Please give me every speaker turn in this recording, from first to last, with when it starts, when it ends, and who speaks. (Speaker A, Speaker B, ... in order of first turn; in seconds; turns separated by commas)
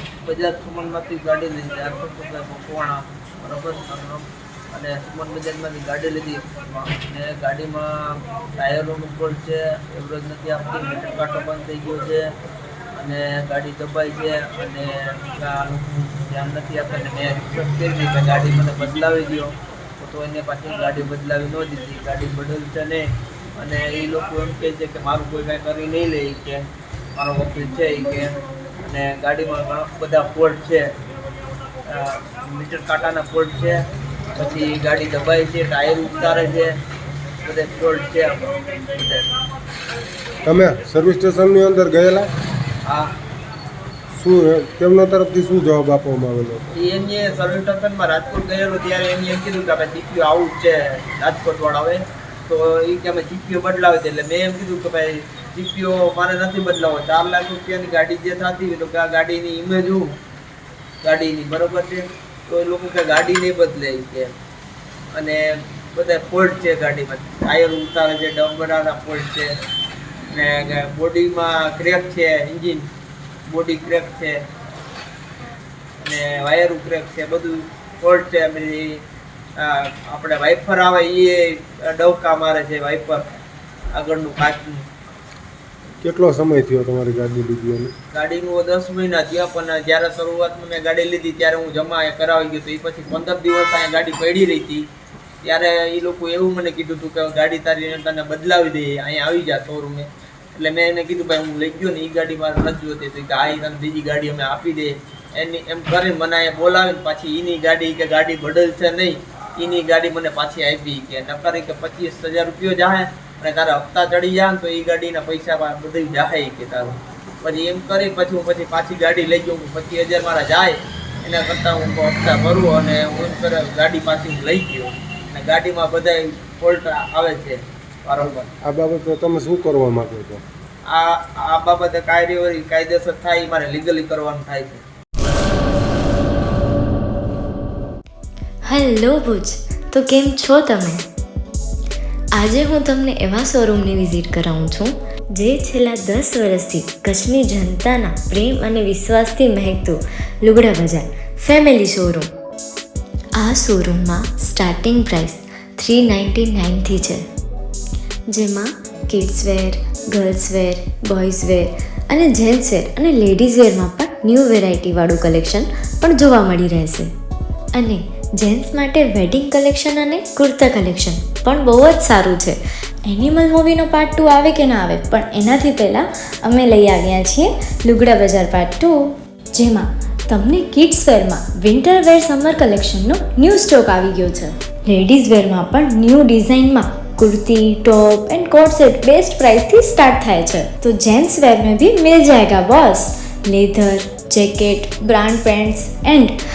Speaker A: 0.3-12.2, Speaker A: 13.0-23.0, Speaker A: 23.6-26.6, Speaker A: 27.2-28.4, Speaker A: 28.9-30.9, Speaker A: 31.9-33.8, Speaker A: 34.4-36.7, Speaker A: 37.4-39.2, Speaker B: 40.5-42.3, Speaker B: 44.1-46.6, Speaker A: 46.8-60.1, Speaker A: 61.0-64.3, Speaker A: 66.0-69.5, Speaker A: 70.3-72.8, Speaker A: 73.5-74.4, Speaker A: 76.0-79.0, Speaker A: 79.6-83.2, Speaker A: 84.0-84.8, Speaker B: 86.0-87.9, Speaker A: 88.1-94.8, Speaker A: 95.4-128.5, Speaker B: 128.2-130.4, Speaker A: 130.9-134.8, Speaker C: 138.7-141.0, Speaker C: 142.4-152.3, Speaker C: 153.4-157.2, Speaker C: 158.3-167.1, Speaker C: 167.8-179.0, Speaker C: 179.6-196.3